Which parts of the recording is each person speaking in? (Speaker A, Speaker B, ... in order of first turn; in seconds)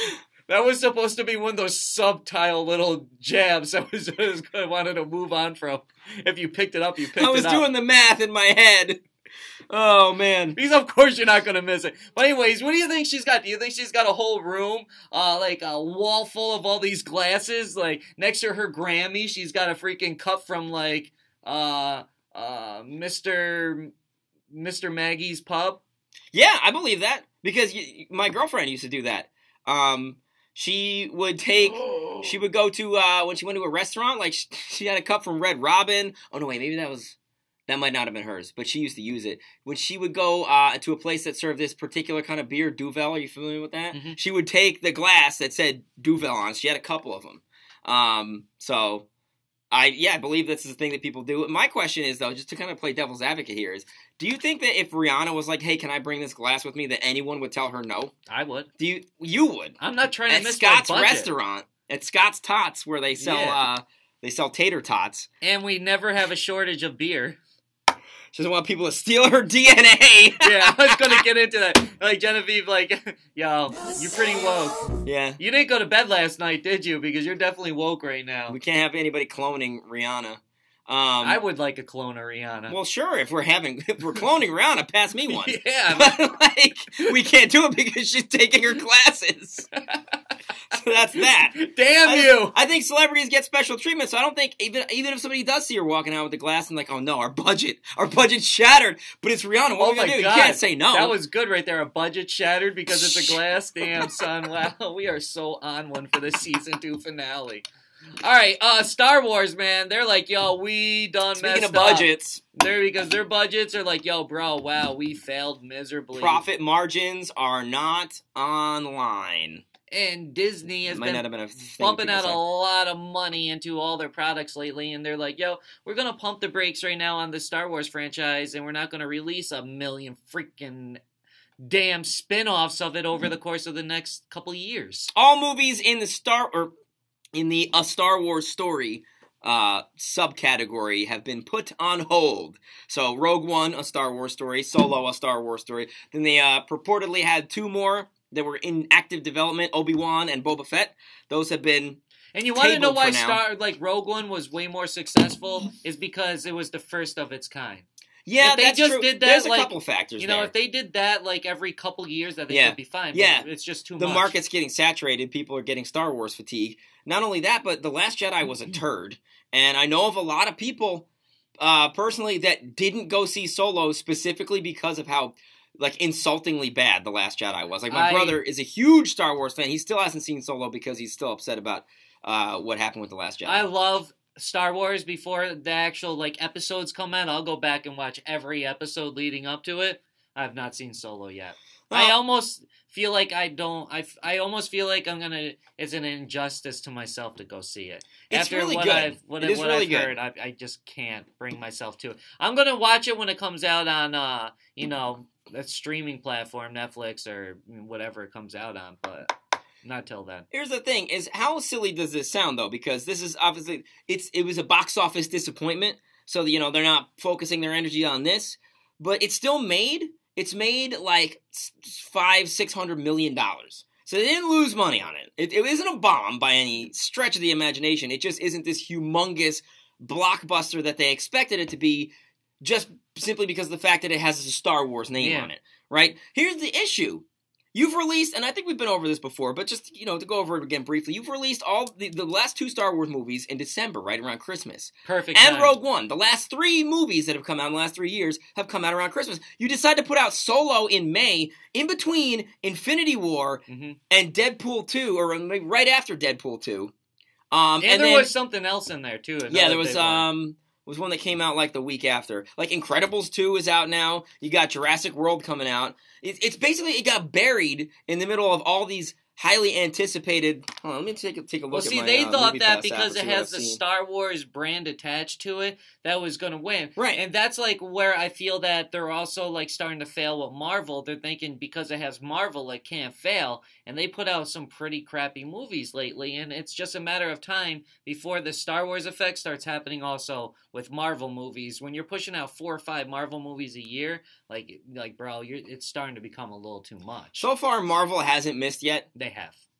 Speaker A: 0.5-7.6, 10.6-23.9, 24.5-25.8, 31.8-32.2, 43.9-44.2, 58.3-58.7, 59.8-61.3, 63.2-63.6, 65.4-67.4, 70.4-78.6, 81.2-82.8, 85.3-86.3, 89.9-90.2, 91.2-92.5, 99.8-107.6, 108.2-116.4, 119.9-121.2, 121.8-131.0, 131.6-135.1, 152.3-157.8, 158.4-164.3, 177.9-178.4, 183.4-209.3, 209.8-210.4, 235.2-235.5, 245.0-245.8, 253.7-254.0, 257.8-260.3, 271.7-297.5, 299.1-299.6
Speaker B: 7.1-9.0, 9.7-10.6, 26.3-37.1, 37.7-49.1, 49.7-58.1, 58.8-59.8, 60.3-65.3, 68.3-71.2, 75.0-75.4, 78.5-81.4, 82.7-89.7, 90.7-101.2, 102.9-103.4, 111.3-112.4, 116.2-119.6, 120.8-122.4, 135.1-136.7, 137.3-152.0, 152.5-153.4, 158.2-160.5, 162.5-163.4, 164.0-171.1, 171.6-183.7, 191.9-192.2, 198.3-200.1, 210.5-256.9, 257.5-258.3, 259.5-273.8, 277.0-277.2, 297.4-299.1